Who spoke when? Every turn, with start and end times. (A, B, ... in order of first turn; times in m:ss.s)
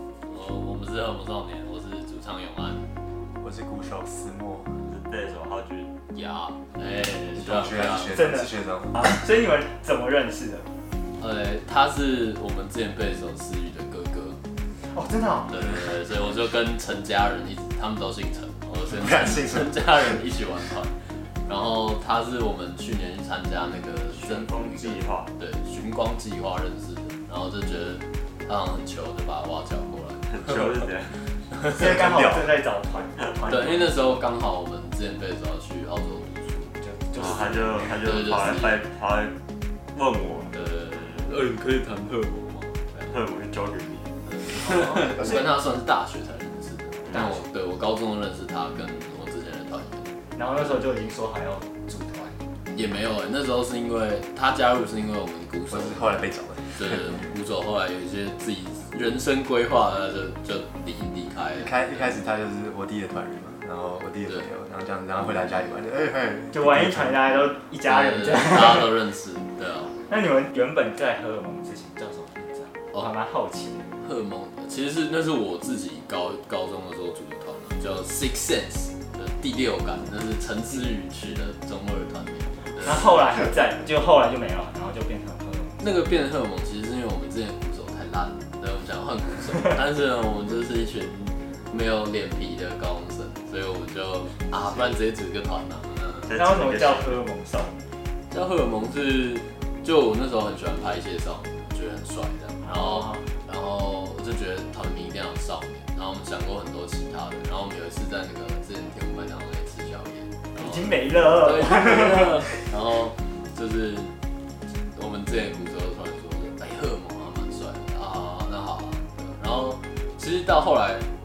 0:00.2-0:02.9 A
0:03.4-0:04.8 B
0:04.9-0:05.9 C
0:06.1-0:08.2 A
0:07.3-0:09.1 B
0:08.1-0:10.7 D
0:11.2-0:14.4 A
0:14.8-0:15.7 D
0:15.5-0:30.7 A
0:18.9-0:20.2 B
0:24.1-0:25.3 C
0:30.3-0:31.3 C
0:31.7-0:34.2 D
0:31.7-0:32.6 B
0:33.5-0:36.8 A
0:36.8-0:38.0 D
0:37.2-0:39.3 C
0:38.0-0:38.8 A
0:39.9-0:41.3 C
0:40.5-0:43.1 A
0:43.1-0:44.1 C
0:44.2-0:50.1 A
0:44.5-0:45.4 D
0:45.0-0:45.4 B
0:47.0-0:47.3 C
0:50.3-0:52.4 D
0:52.7-1:02.0 A
0:55.7-0:57.2 B
1:01.5-1:07.2 B
1:06.5-1:08.9 D
1:07.8-1:09.9 A
1:10.1-1:13.9 D
1:14.0-1:23.2 A
1:22.8-1:26.0 D
1:25.8-1:36.3 A
1:36.2-1:37.2 C
1:36.4-1:37.8 D
1:38.3-1:54.1 A
1:42.6-1:43.3 D
1:50.6-1:52.6 D
1:54.9-2:01.0 A